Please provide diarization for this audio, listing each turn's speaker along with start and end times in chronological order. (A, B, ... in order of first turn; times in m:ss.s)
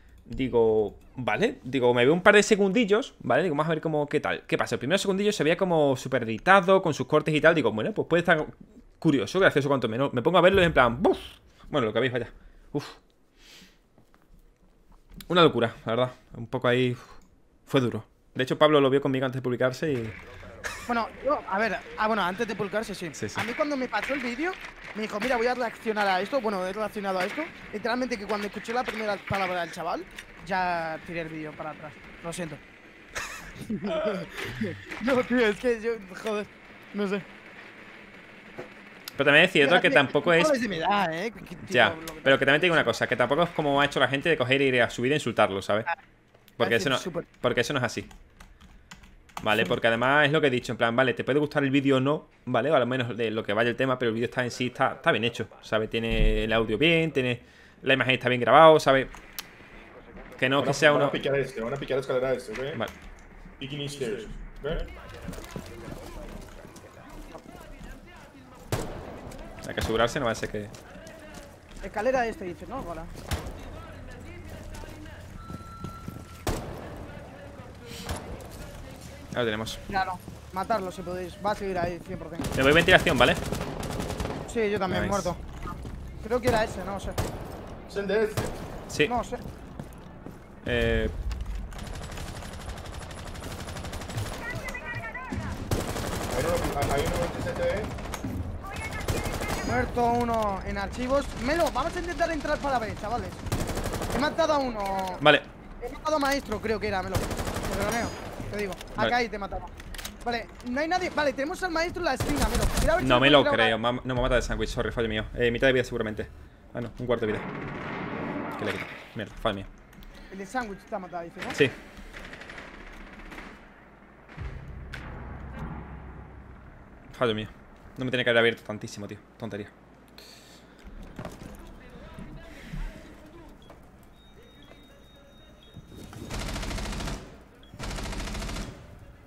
0:00.2-0:13.0 A
0:15.3-0:17.2 A
0:17.7-0:20.1 A
0:20.8-0:32.6 B
0:23.1-0:23.4 A
0:33.6-0:37.2 B
0:39.2-0:40.5 A
0:39.6-0:43.0 B
0:41.6-0:45.9 A
0:46.6-0:47.3 B
0:46.6-0:48.1 A
0:49.4-0:59.1 A
1:00.4-1:01.2 A
1:00.6-1:02.8 C
1:03.6-1:04.9 C
1:09.6-1:10.7 A
1:11.8-1:13.1 B
1:19.3-1:19.8 A
1:19.9-1:22.5 B
1:22.5-1:23.4 A
1:24.5-1:25.4 B
1:24.9-1:25.3 A
1:26.2-1:27.2 B
1:27.9-1:28.6 C
1:29.0-1:29.4 B
1:30.6-1:31.1 A
1:36.3-1:37.9 C
1:39.6-1:43.4 B
1:44.1-1:45.2 B
1:45.2-1:45.5 A
1:45.8-1:49.7 B
1:50.2-1:53.8 B
1:53.0-1:57.5 A
1:58.6-1:59.7 A
2:00.3-2:01.6 B
2:07.1-2:09.7 A